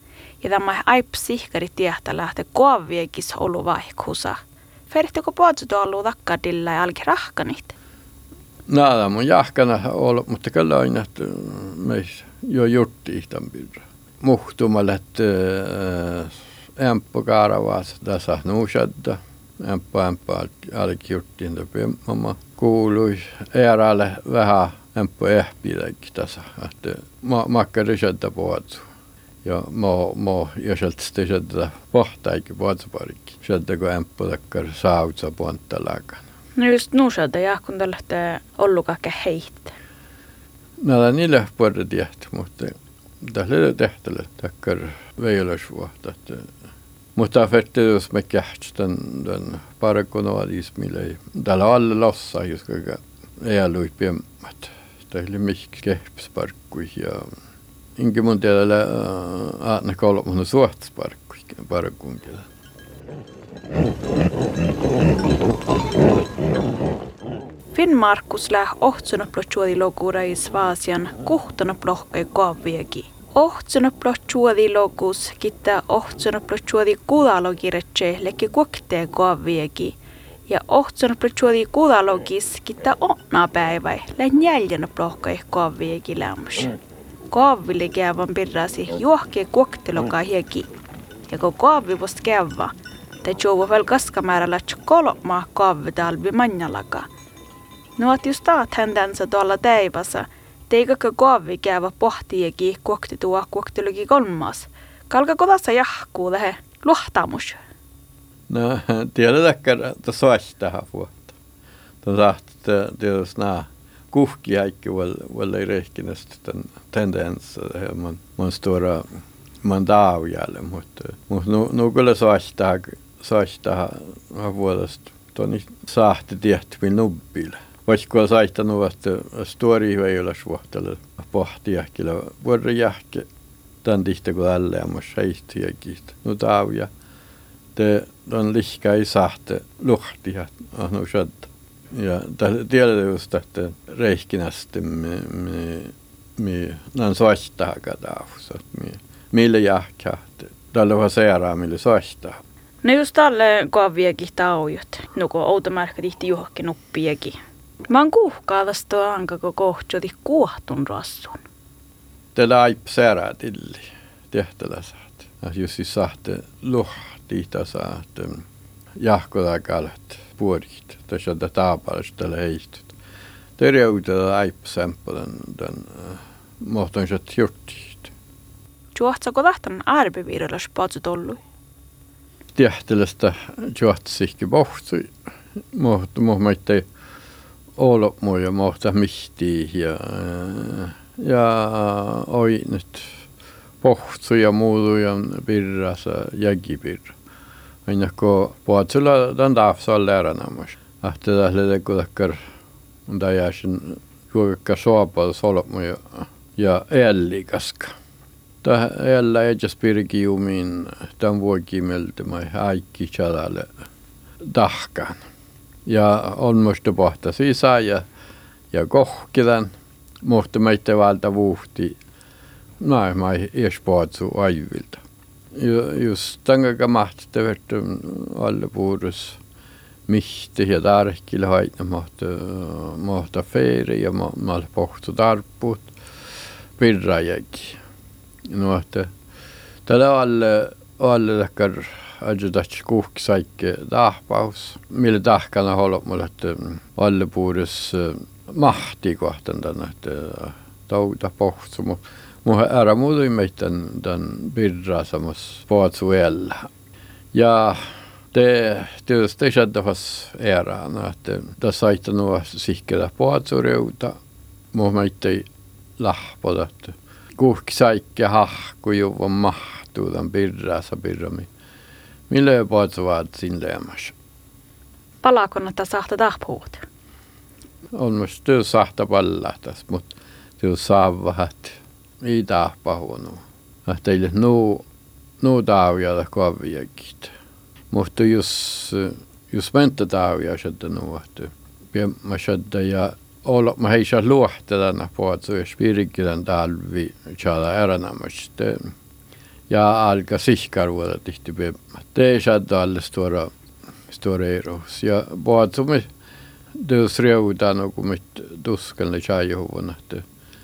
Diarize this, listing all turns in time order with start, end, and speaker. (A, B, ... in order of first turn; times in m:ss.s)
0:00.4-0:04.4 A
0:04.9-0:07.7 A
0:08.7-0:28.8 B
0:29.4-0:36.2 B
0:36.6-0:39.7 A
0:40.8-0:46.5 B
0:47.2-0:57.3 B
0:58.0-1:02.4 B
1:07.7-1:26.7 A
1:27.3-1:30.7 A
1:31.3-1:37.1 A
1:38.0-1:47.6 A
1:48.5-1:51.3 B
1:52.0-1:59.0 B
1:59.6-2:13.3 B
2:13.8-2:16.9 B
2:17.8-2:32.4 B
2:32.8-2:37.4 A
2:37.9-2:41.4 A
2:42.3-2:48.4 B
2:49.0-2:52.9 B
2:53.6-2:58.1 B
2:58.9-3:01.4 A
3:02.6-3:05.1 B
3:05.7-3:06.8 B
3:07.8-3:13.2 B
3:13.8-3:17.2 B
3:17.8-3:22.4 B
3:23.1-3:27.9 B
3:28.6-3:33.7 B
3:34.4-3:35.2 B
3:35.8-3:38.0 B
3:38.7-3:39.7 B
3:40.2-3:42.0 B
3:42.8-3:45.0 B
3:45.5-3:49.4 B
3:50.1-3:55.9 B
3:56.8-3:57.8 B
3:58.5-3:59.1 B
3:59.8-4:16.7 B
4:17.3-4:17.8 B
4:18.3-4:24.2 B
4:24.7-4:25.4 B
4:26.0-4:31.5 B
4:32.3-4:34.1 B
4:35.2-4:36.8 A
4:37.9-4:44.8 B
4:45.4-4:47.3 B
4:47.9-4:58.9 B
4:59.7-5:03.5 B
5:04.1-5:06.1 B
5:06.7-5:10.2 B